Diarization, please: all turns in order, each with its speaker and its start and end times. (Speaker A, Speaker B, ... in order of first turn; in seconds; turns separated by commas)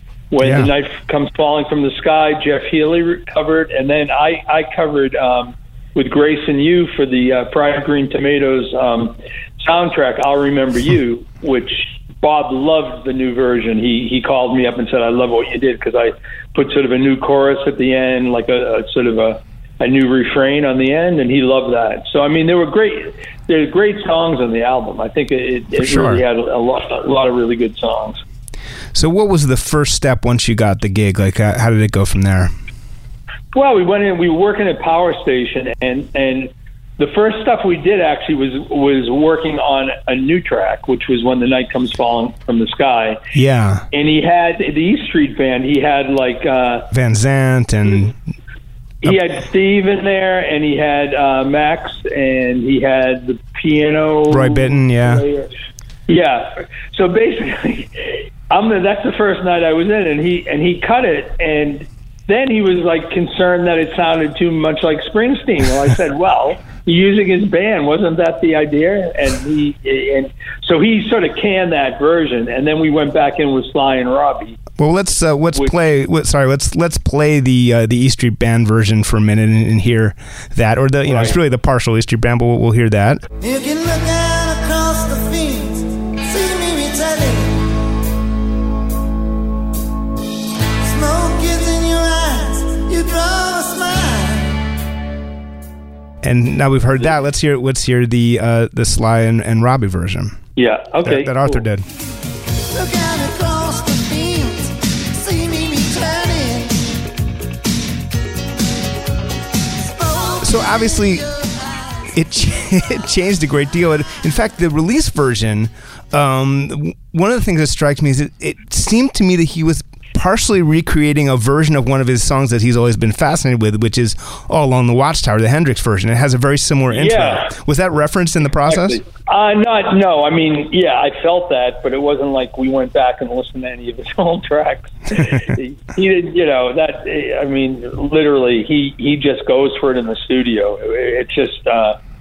Speaker A: 0.3-28.2, Speaker B: 0.4-0.7, Speaker B: 25.8-26.2, Speaker B: 28.9-32.5, Speaker A: 33.5-43.2, Speaker B: 43.3-43.9, Speaker A: 43.9-46.9, Speaker B: 46.9-48.2, Speaker A: 49.0-55.5, Speaker B: 54.3-55.2, Speaker A: 56.1-74.6, Speaker B: 74.8-83.2, Speaker A: 81.0-81.4, Speaker C: 83.4-87.7, Speaker C: 90.8-94.7, Speaker B: 96.2-100.4, Speaker A: 100.6-101.7, Speaker B: 101.0-101.8, Speaker C: 102.7-106.9, Speaker C: 110.0-111.2, Speaker B: 110.4-111.2, Speaker B: 112.1-129.0, Speaker A: 126.9-127.5, Speaker A: 128.6-142.0